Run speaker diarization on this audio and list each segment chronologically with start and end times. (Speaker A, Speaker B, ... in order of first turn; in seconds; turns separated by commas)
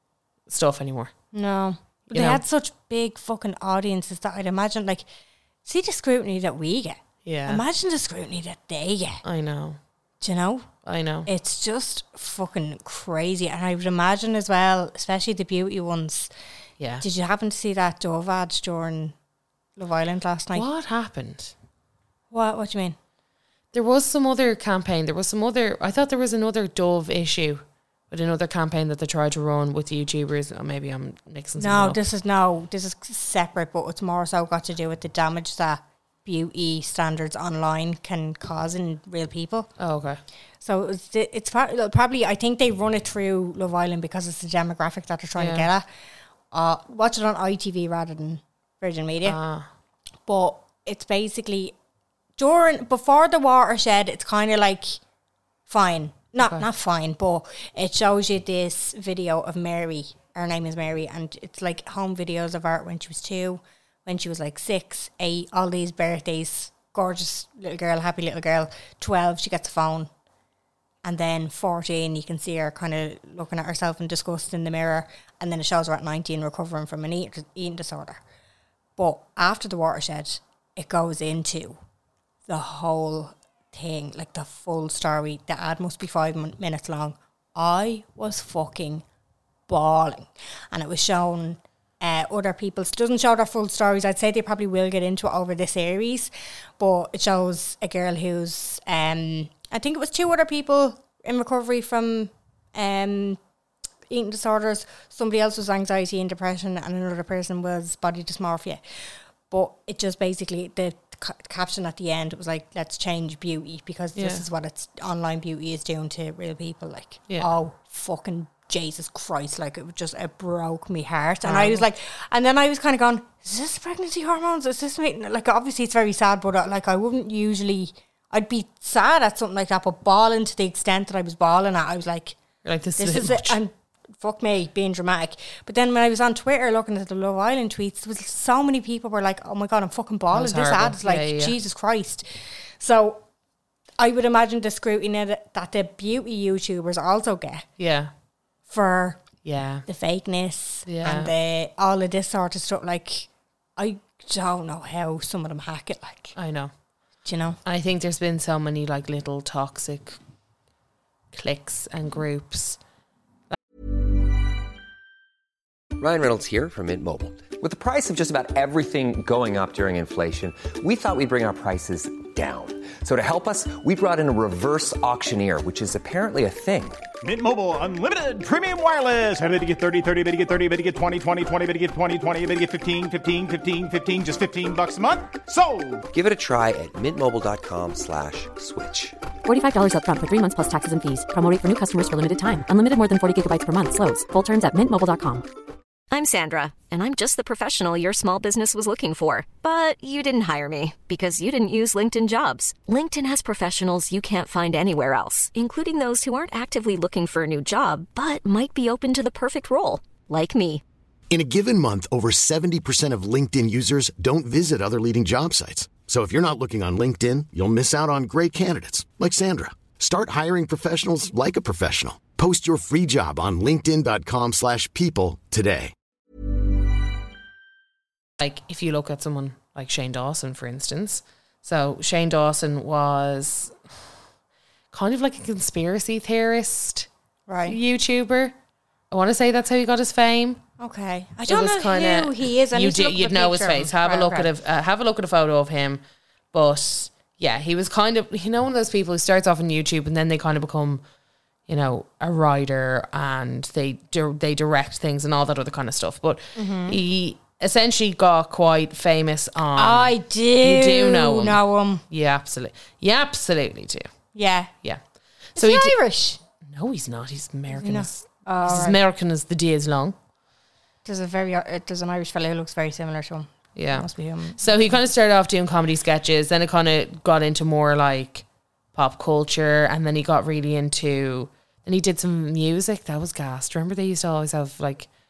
Speaker A: 0.5-1.1, Speaker B: 1.3-5.0, Speaker A: 2.1-2.4, Speaker B: 5.6-9.2, Speaker A: 7.2-7.6, Speaker A: 9.2-9.8, Speaker B: 10.2-10.7, Speaker A: 10.8-11.3, Speaker B: 11.2-16.3, Speaker B: 17.0-19.1, Speaker B: 19.8-20.7, Speaker A: 20.5-21.5, Speaker B: 22.3-23.0, Speaker A: 23.7-32.0, Speaker B: 31.6-39.7, Speaker A: 39.8-40.2, Speaker B: 40.6-45.8, Speaker A: 45.4-45.7, Speaker B: 46.5-49.4, Speaker A: 49.2-49.7, Speaker B: 50.2-51.7, Speaker B: 52.4-55.0, Speaker B: 55.7-70.1, Speaker B: 71.0-78.2, Speaker B: 79.0-81.8, Speaker B: 82.5-89.0, Speaker B: 89.7-103.4, Speaker B: 104.1-108.8, Speaker B: 109.5-132.3, Speaker A: 114.2-114.4, Speaker A: 121.4-121.8, Speaker A: 132.6-133.6, Speaker B: 133.0-142.2, Speaker A: 140.3-141.5, Speaker B: 142.8-143.2, Speaker B: 144.0-147.6, Speaker A: 147.8-148.1, Speaker B: 148.7-149.2, Speaker A: 149.4-149.8, Speaker B: 149.9-156.3, Speaker A: 150.8-151.3, Speaker A: 156.3-156.7, Speaker B: 157.2-157.6, Speaker A: 157.6-160.2, Speaker A: 161.3-162.8, Speaker C: 166.0-177.0, Speaker D: 177.2-186.0, Speaker C: 186.1-189.1, Speaker E: 189.4-195.4, Speaker F: 196.1-210.8, Speaker G: 211.3-225.9, Speaker A: 228.4-233.7, Speaker A: 234.9-237.1, Speaker B: 237.5-237.8, Speaker A: 237.7-238.5, Speaker A: 239.1-240.6, Speaker B: 240.8-244.5, Speaker A: 241.5-246.0, Speaker A: 246.5-251.0, Speaker A: 251.7-264.1, Speaker B: 256.6-257.0, Speaker B: 259.8-262.0, Speaker B: 264.3-264.7, Speaker A: 265.6-265.9, Speaker B: 265.6-266.4, Speaker A: 266.6-270.1, Speaker B: 267.7-269.0, Speaker B: 271.0-275.0, Speaker A: 273.8-285.1